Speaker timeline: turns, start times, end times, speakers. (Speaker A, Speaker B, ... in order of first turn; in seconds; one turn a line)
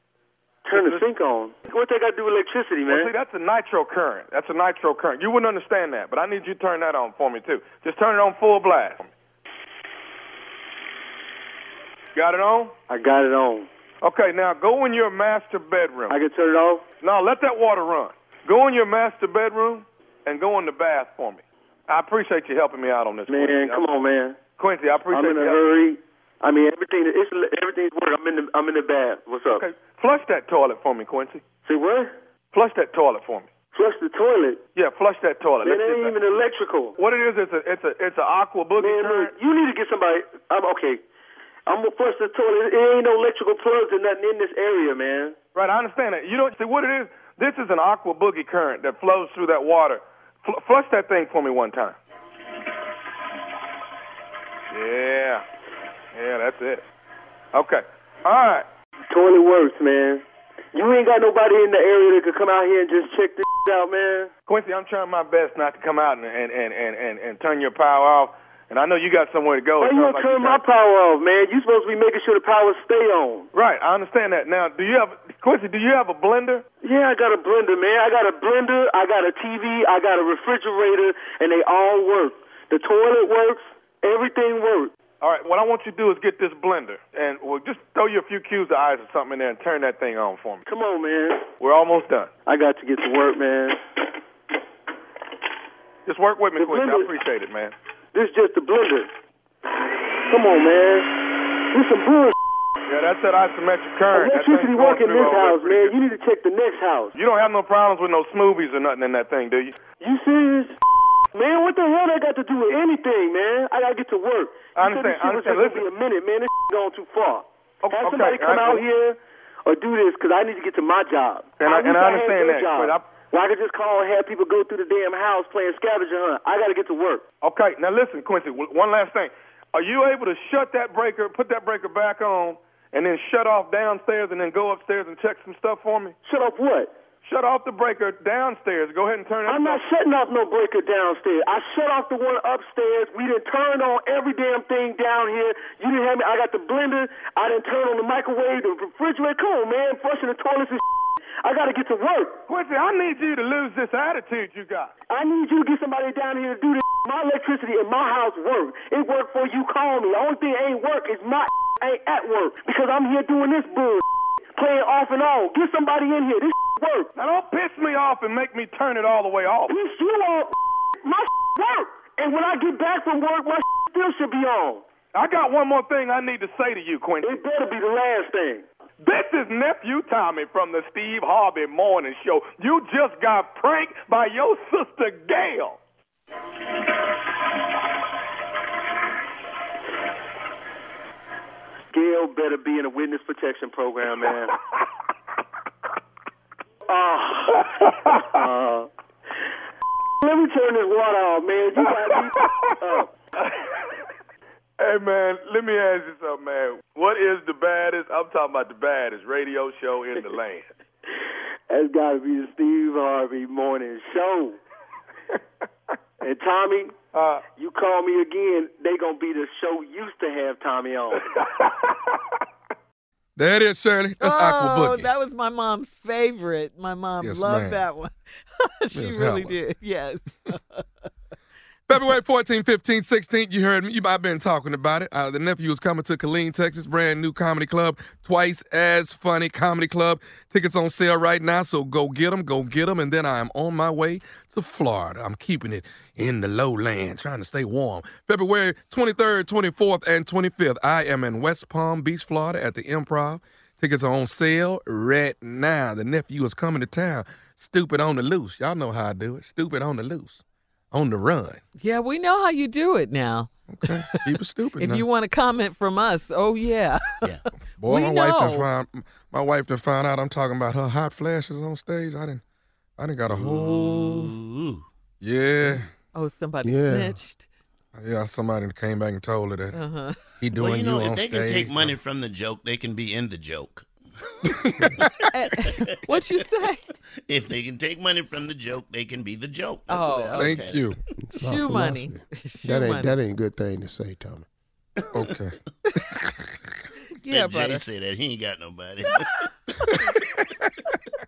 Speaker A: 0.6-3.1
Speaker B: 0.7-1.1
Speaker B: 2.9-9.1
Speaker B: 12.1-12.7
Speaker A: 12.9-13.7
Speaker B: 14.0-16.2
Speaker A: 16.1-16.8
Speaker B: 17.0-23.9
Speaker A: 23.3-24.4
Speaker B: 24.6-25.6
Speaker A: 25.1-29.6
Speaker B: 29.5-31.4
Speaker A: 31.6-32.1
Speaker B: 32.5-33.5
Speaker A: 33.7-34.6
Speaker B: 34.7-36.1
Speaker A: 35.6-37.0
Speaker B: 37.0-39.3
Speaker A: 38.8-41.0
Speaker A: 41.7-45.4
Speaker B: 45.5-52.0
Speaker B: 54.7-55.4
Speaker B: 56.1-56.9
Speaker B: 57.5-58.6
Speaker A: 59.1-64.3
Speaker B: 64.5-70.6
Speaker A: 69.8-73.5
Speaker B: 73.5-76.6
Speaker A: 76.8-84.9
Speaker B: 85.2-90.7
Speaker A: 90.7-91.5
Speaker B: 91.6-92.3
Speaker A: 92.5-93.8
Speaker B: 96.0-97.7
Speaker A: 96.6-97.1
Speaker A: 98.1-99.1
Speaker A: 100.3-102.3
Speaker B: 102.8-105.9
Speaker A: 104.1-107.1
Speaker B: 107.1-109.8
Speaker A: 110.0-110.8
Speaker A: 111.3-127.2
Speaker B: 114.7-115.9
Speaker B: 117.8-118.8
Speaker B: 121.6-123.0
Speaker B: 127.4-136.2
Speaker A: 136.2-136.9
Speaker B: 137.2-139.8
Speaker A: 139.5-150.8
Speaker A: 151.4-152.4
Speaker B: 152.5-154.9
Speaker A: 155.1-164.0
Speaker A: 164.5-167.1
Speaker B: 167.2-169.8
Speaker A: 169.7-174.8
Speaker B: 175.1-177.3
Speaker A: 177.2-178.6
Speaker B: 179.0-185.8
Speaker A: 191.9-194.5
Speaker A: 196.9-198.9
Speaker B: 197.6-198.2
Speaker A: 200.2-203.1
Speaker B: 203.4-203.7
Speaker B: 204.8-210.6
Speaker A: 211.7-214.6
Speaker A: 216.2-216.9
Speaker B: 217.1-217.4
Speaker A: 217.5-221.2
Speaker B: 221.4-221.9
Speaker C: 223.3-225.1
Speaker D: 224.2-230.8
Speaker C: 227.2-227.8
Speaker C: 228.9-229.6
Speaker C: 231.9-251.7
Speaker B: 248.9-254.9
Speaker C: 252.3-253.4
Speaker C: 254.0-260.4
Speaker C: 260.9-261.6
Speaker D: 261.8-264.2
Speaker C: 263.7-265.1
Speaker D: 264.8-268.7
Speaker C: 267.8-272.4
Speaker C: 273.0-274.0
Speaker E: 273.3-274.8
Speaker C: 275.2-275.8
Speaker D: 276.1-277.5
Speaker F: 276.6-277.2
Speaker C: 277.9-279.8
Speaker D: 279.7-280.2
Speaker C: 280.4-281.9
Speaker E: 280.5-283.9
Speaker C: 284.8-285.1
Speaker D: 285.3-286.8
Speaker E: 285.6-286.2
Speaker E: 287.3-290.9
Speaker D: 289.9-290.6
Speaker C: 290.4-290.9
Speaker F: 291.3-294.5
Speaker D: 291.4-293.2
Speaker E: 295.0-295.4
Speaker C: 295.1-295.6
Speaker D: 297.1-297.8
Speaker E: 297.3-299.7